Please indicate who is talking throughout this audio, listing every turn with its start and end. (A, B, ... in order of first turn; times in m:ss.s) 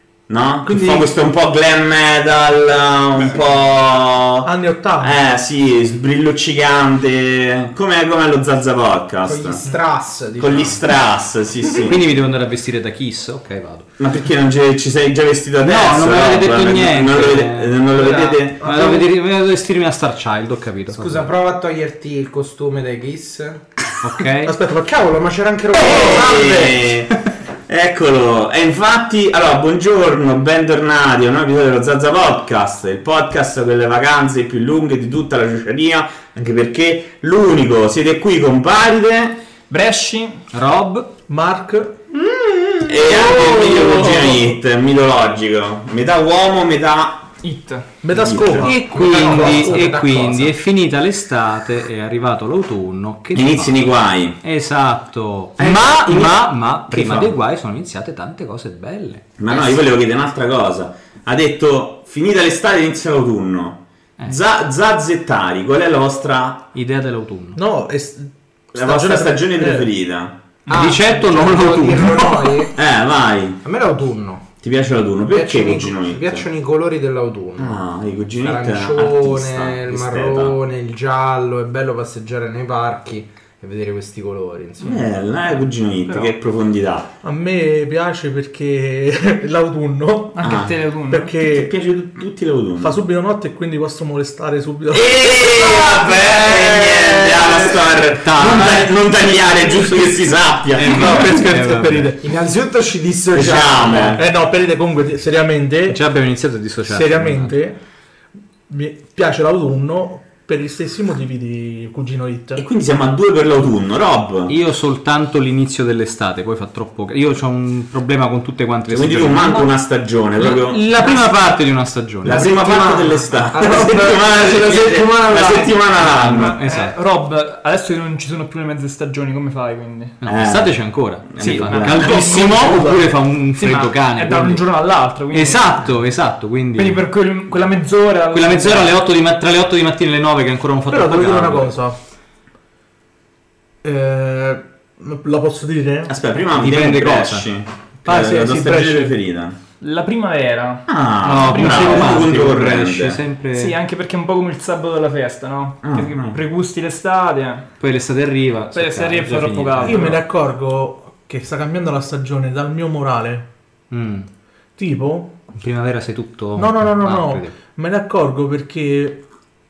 0:00.3-0:09.7 A
0:00.6-0:01.1 B
0:04.4-0:05.2 B
0:09.2-0:10.8 C
0:10.4-0:12.0 A
0:11.8-0:13.9 D
0:14.0-0:19.0 A
0:15.6-0:21.3 D
0:18.0-0:18.4 C
0:18.6-0:19.0 B
0:20.9-0:23.7 C
0:24.0-0:24.6 D
0:24.5-0:24.9 B
0:24.8-0:26.9 C
0:25.7-0:39.4 A
0:39.7-0:40.4 E
0:40.5-0:41.1 D
0:41.3-0:42.0 B
0:42.9-0:47.3 A
0:43.0-0:44.6 B
0:43.1-0:43.7 C
0:47.4-0:47.9 E
0:48.0-0:49.9 B
0:48.1-0:48.8 A
0:48.6-0:59.8 D
0:48.6-0:50.5 C
0:53.3-0:54.4 A
0:55.6-0:57.3 A
0:59.4-1:06.7 A
1:06.7-1:07.6 D
1:07.6-1:09.9 B
1:08.7-1:10.4 A
1:10.7-1:12.8 C
1:10.7-1:12.4 D
1:12.7-1:13.6 A
1:13.6-1:14.5 C
1:14.6-1:16.5 A
1:15.3-1:17.8 C
1:17.6-1:20.6 A
1:18.4-1:25.1 C
1:24.8-1:27.1 A
1:27.2-1:31.7 B
1:30.3-1:31.3 E
1:30.4-1:30.7 A
1:31.4-1:33.0 A
1:32.8-1:35.1 B
1:34.9-1:41.2 A
1:35.4-1:37.8 C
1:38.2-1:38.9 D
1:40.8-1:42.2 D
1:40.8-1:42.2 B
1:42.2-1:44.2 C
1:43.3-1:44.3 A
1:44.1-1:46.0 B
1:45.9-1:47.6 D
1:46.9-1:47.8 B
1:48.7-1:52.6 B
1:52.6-1:54.6 A
1:54.5-1:59.7 D
1:58.9-2:00.8 A
2:00.4-2:02.5 D
2:02.2-2:06.6 A
2:02.3-2:05.8 C
2:06.0-2:07.0 D
2:06.3-2:10.2 E
2:10.2-2:14.7 D
2:10.2-2:10.8 A
2:11.3-2:12.2 A
2:11.7-2:12.9 E
2:12.0-2:13.1 B
2:13.6-2:15.8 E
2:15.3-2:17.0 D
2:16.8-2:19.0 E
2:18.3-2:21.8 D
2:20.9-2:22.0 B
2:23.8-2:26.1 B
2:26.1-2:29.6 A
2:26.5-2:27.5 D
2:28.1-2:29.1 B
2:29.8-2:30.9 E
2:30.9-2:33.2 A
2:31.2-2:33.8 D
2:31.5-2:32.2 E
2:33.5-2:37.7 E
2:35.8-2:36.4 A
2:37.8-2:40.2 D
2:38.7-2:40.2 E
2:39.8-2:43.5 B
2:43.9-2:44.3 D
2:44.8-2:45.3 B
2:45.6-2:47.6 D
2:46.6-2:49.2 B